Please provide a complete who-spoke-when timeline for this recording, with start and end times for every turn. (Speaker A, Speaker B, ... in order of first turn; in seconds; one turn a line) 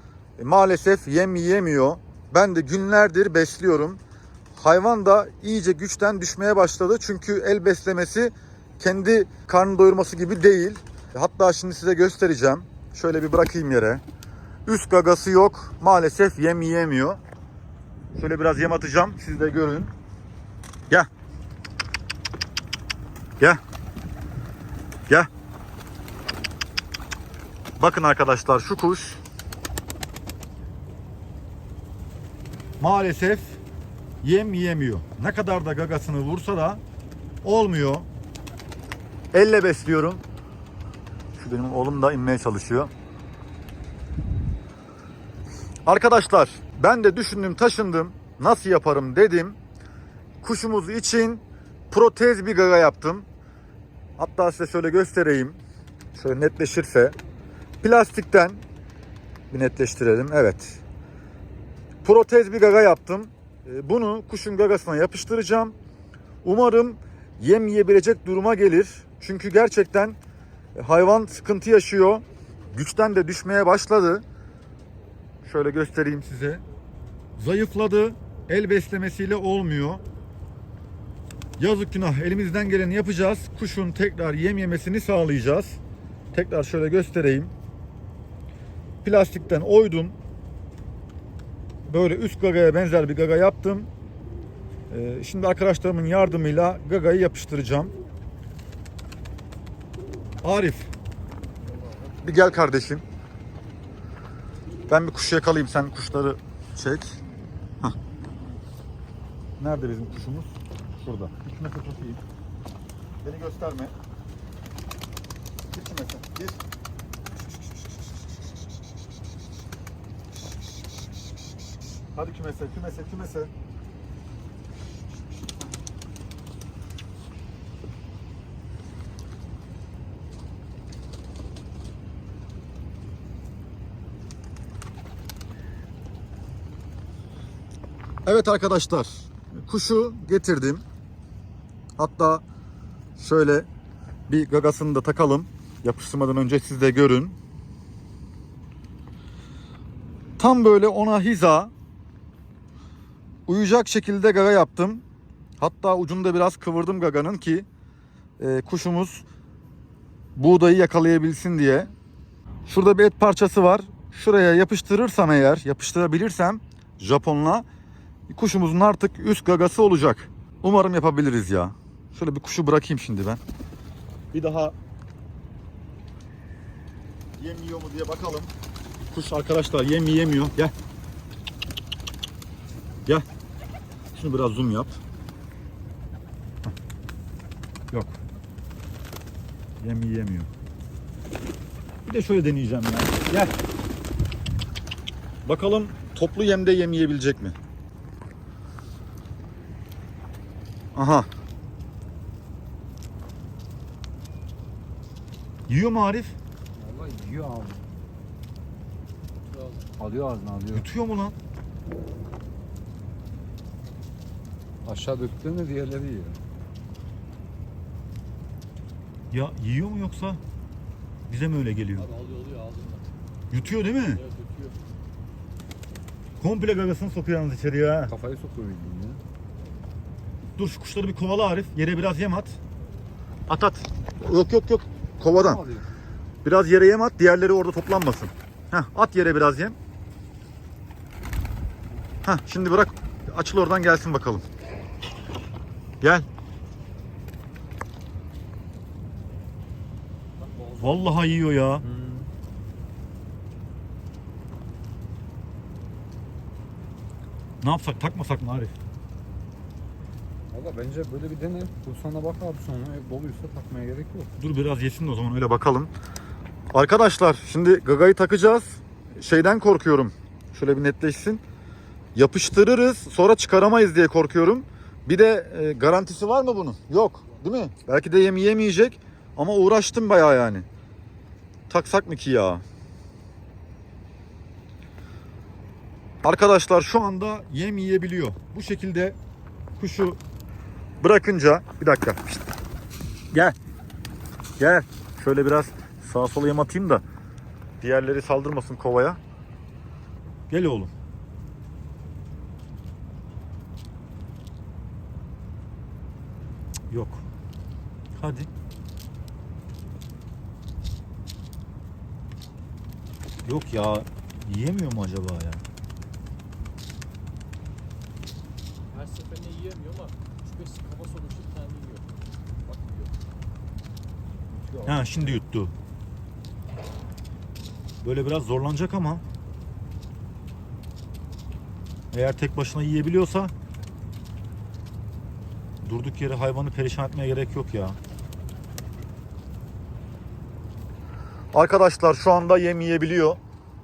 Speaker A: 0.4-4.0
Speaker A: 4.6-14.0
Speaker A: 14.7-17.2
Speaker A: 18.1-19.9
Speaker A: 27.8-29.2
Speaker A: 32.8-33.6
Speaker A: 34.2-36.8
Speaker A: 37.4-38.1
Speaker A: 39.3-40.2
Speaker A: 41.4-42.9
Speaker A: 45.9-49.6
Speaker A: 50.4-53.3
Speaker A: 54.2-55.6
Speaker A: 56.1-57.2
Speaker A: 57.8-58.6
Speaker A: 59.5-60.8
Speaker A: 62.0-65.8
Speaker A: 66.4-70.2
Speaker A: 70.8-74.2
Speaker A: 75.4-76.6
Speaker A: 77.4-80.0
Speaker A: 81.6-85.8
Speaker A: 86.3-87.5
Speaker A: 89.0-90.2
Speaker A: 91.9-93.9
Speaker A: 94.9-97.9
Speaker A: 100.4-100.9
Speaker A: 102.2-103.0
Speaker A: 104.9-107.2
Speaker A: 109.6-112.2
Speaker A: 113.2-113.9
Speaker A: 115.7-116.6
Speaker A: 122.2-123.5
Speaker A: 138.2-140.8
Speaker A: 142.0-142.4
Speaker A: 143.2-143.7
Speaker A: 144.3-147.4
Speaker A: 150.4-151.7
Speaker A: 153.5-155.0
Speaker A: 155.6-157.7
Speaker A: 158.4-159.2
Speaker A: 160.3-161.9
Speaker A: 162.7-167.7
Speaker A: 168.3-173.4
Speaker A: 174.3-174.8
Speaker A: 177.4-178.5
Speaker A: 179.1-180.7
Speaker A: 184.1-185.0
Speaker A: 187.9-188.2
Speaker A: 189.8-190.5
Speaker A: 192.1-193.5
Speaker A: 195.4-197.6
Speaker A: 200.9-201.3
Speaker A: 205.7-206.3
Speaker B: 206.8-207.8
Speaker B: 210.0-210.9
Speaker A: 210.7-211.4
Speaker B: 214.8-216.4
Speaker A: 219.3-220.4
Speaker A: 221.3-222.1
Speaker C: 222.0-223.1
Speaker A: 223.5-224.2
Speaker C: 224.2-224.8
Speaker A: 226.4-228.1
Speaker B: 228.1-229.2
Speaker A: 230.6-232.6
Speaker A: 233.5-235.6
Speaker B: 235.4-235.9
Speaker A: 236.4-239.8
Speaker A: 242.2-244.4
Speaker A: 246.0-246.3
Speaker B: 250.4-251.1
Speaker A: 250.8-251.9
Speaker B: 251.8-252.3
Speaker A: 257.6-258.7
Speaker B: 260.5-264.3
Speaker A: 264.4-265.9
Speaker A: 266.7-271.4
Speaker A: 272.1-280.7
Speaker A: 281.7-282.6
Speaker A: 286.2-289.2
Speaker A: 289.8-290.2
Speaker A: 291.0-292.4
Speaker A: 294.6-297.0
Speaker A: 297.8-299.2
Speaker A: 300.5-300.9
Speaker A: 306.9-307.2
Speaker A: 308.2-308.5
Speaker A: 313.4-315.6
Speaker C: 318.9-322.1
Speaker C: 322.7-323.1
Speaker B: 324.7-325.1
Speaker A: 324.9-325.7
Speaker A: 328.0-329.2
Speaker A: 332.1-333.5
Speaker A: 335.8-338.0
Speaker A: 341.5-343.4